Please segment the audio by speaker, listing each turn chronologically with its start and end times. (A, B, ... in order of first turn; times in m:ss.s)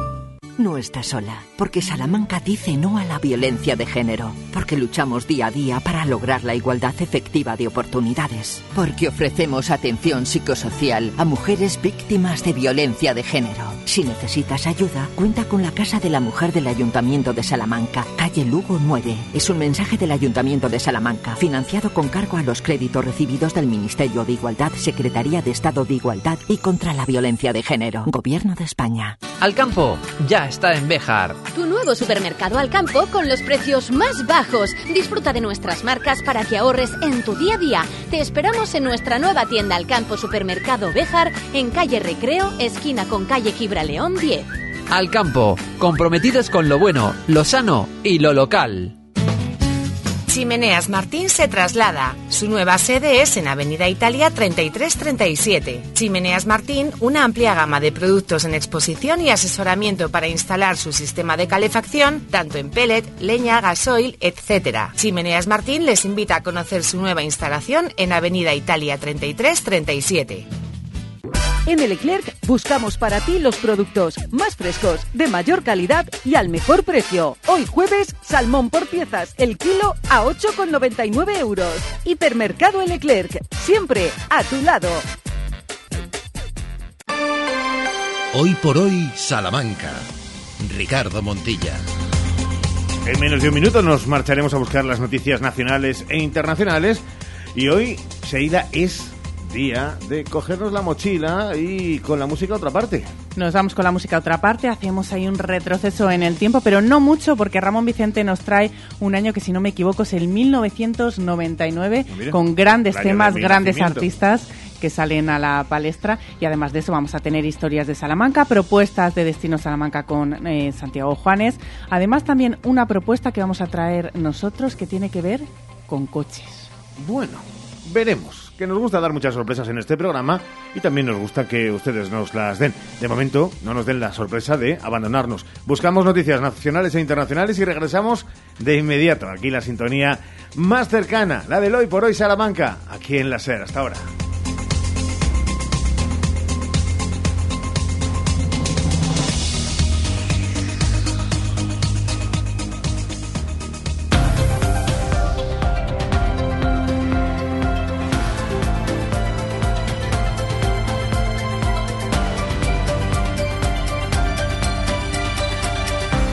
0:00.6-0:29.2 A
0:29.4-0:31.4 B
0:31.5-0:44.5 C
0:44.9-0:48.9 B
0:50.3-1:10.4 D
1:11.6-1:25.0 E
1:28.3-1:31.8 F
1:33.0-1:37.0 G
1:37.5-1:43.1 G
1:43.4-2:06.7 H
1:52.1-1:54.1 G
2:07.0-2:24.1 G